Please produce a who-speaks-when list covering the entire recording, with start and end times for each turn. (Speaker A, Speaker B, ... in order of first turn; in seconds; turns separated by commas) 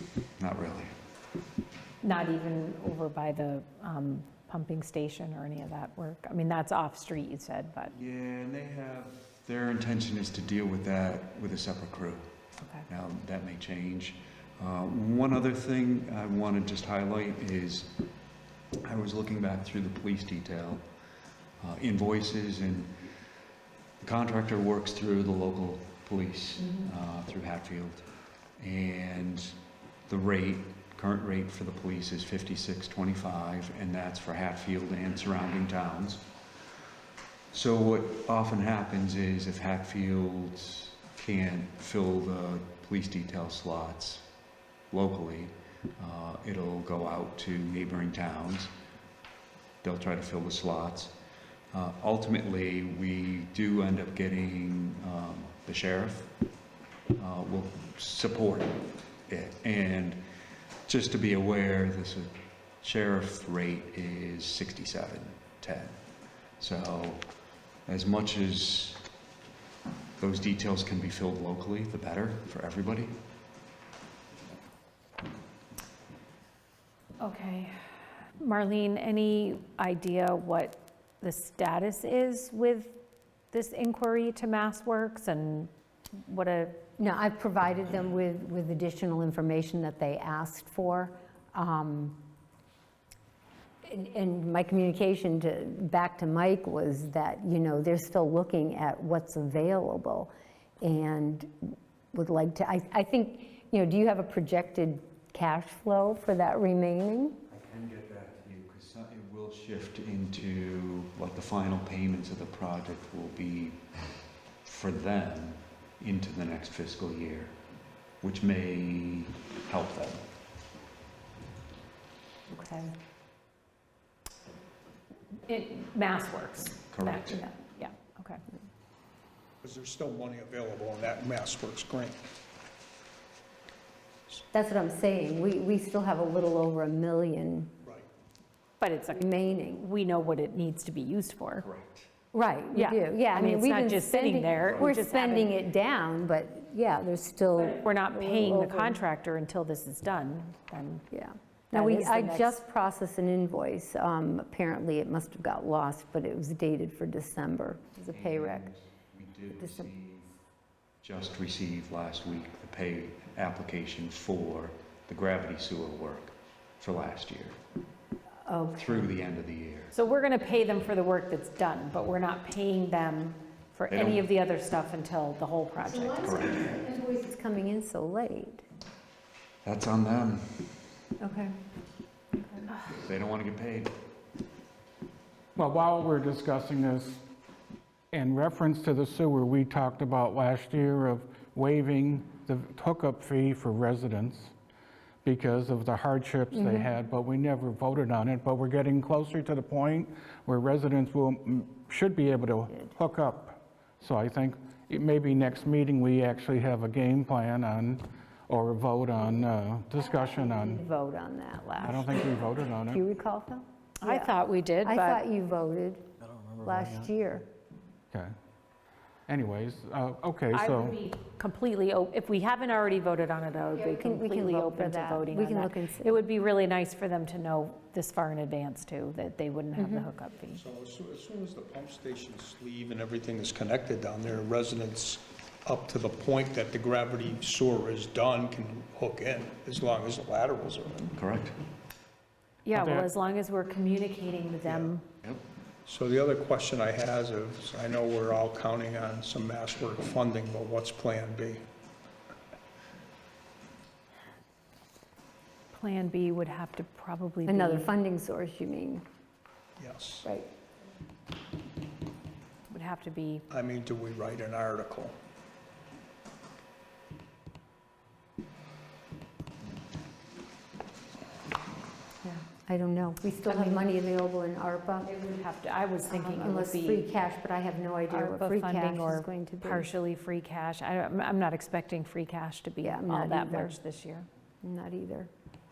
Speaker A: 0.4-0.9, Speaker B: 2.0-7.9, Speaker A: 7.9-12.3, Speaker B: 12.6-12.8, Speaker A: 12.9-17.9, Speaker A: 18.8-20.8, Speaker A: 21.6-23.0, Speaker A: 24.0-36.3, Speaker A: 37.5-44.2, Speaker A: 44.9-48.7, Speaker A: 49.8-51.1, Speaker A: 51.7-56.3, Speaker A: 57.1-60.2, Speaker A: 60.9-66.0, Speaker A: 66.6-67.2, Speaker A: 67.8-69.0, Speaker A: 70.2-73.1, Speaker B: 77.2-77.8, Speaker B: 78.4-83.0, Speaker B: 83.5-86.8, Speaker C: 87.0-92.2, Speaker C: 93.8-107.4, Speaker A: 107.5-113.8, Speaker A: 114.6-117.5, Speaker A: 118.2-120.2, Speaker B: 122.5-122.9, Speaker B: 125.5-128.4, Speaker A: 126.9-127.4, Speaker D: 129.6-132.3, Speaker C: 134.5-137.7, Speaker B: 138.8-141.6, Speaker C: 139.1-139.8, Speaker A: 141.6-142.1, Speaker C: 142.3-149.0, Speaker B: 142.7-145.5, Speaker B: 147.6-151.0, Speaker C: 151.1-158.7, Speaker B: 151.7-152.6, Speaker A: 158.1-160.4, Speaker C: 159.6-159.9, Speaker A: 161.0-167.6, Speaker C: 168.4-169.1, Speaker A: 168.8-169.9, Speaker B: 169.9-176.4, Speaker A: 173.9-174.2, Speaker C: 175.8-178.6, Speaker A: 176.2-176.8, Speaker A: 179.6-180.7, Speaker B: 181.2-181.5, Speaker B: 182.4-182.8, Speaker A: 182.9-183.9, Speaker E: 185.6-187.2, Speaker E: 188.1-194.5, Speaker E: 195.2-210.8, Speaker C: 196.5-196.9, Speaker C: 210.0-216.1, Speaker E: 211.8-213.0, Speaker B: 214.0-215.2, Speaker E: 216.2-216.9, Speaker C: 216.6-217.4, Speaker E: 219.3-221.0, Speaker B: 220.5-230.6, Speaker C: 223.8-226.1, Speaker C: 229.8-230.1, Speaker D: 230.5-241.1, Speaker A: 241.1-241.6, Speaker B: 242.7-245.0, Speaker E: 242.7-243.1, Speaker D: 244.6-244.9, Speaker D: 245.8-251.6, Speaker B: 255.7-257.9, Speaker C: 257.4-259.0, Speaker D: 259.8-260.2, Speaker B: 262.7-263.4, Speaker D: 263.5-265.1, Speaker C: 272.6-275.1, Speaker B: 273.5-273.8, Speaker B: 275.0-277.1, Speaker C: 276.1-279.9, Speaker B: 278.1-284.3, Speaker C: 282.8-283.7, Speaker C: 284.6-285.3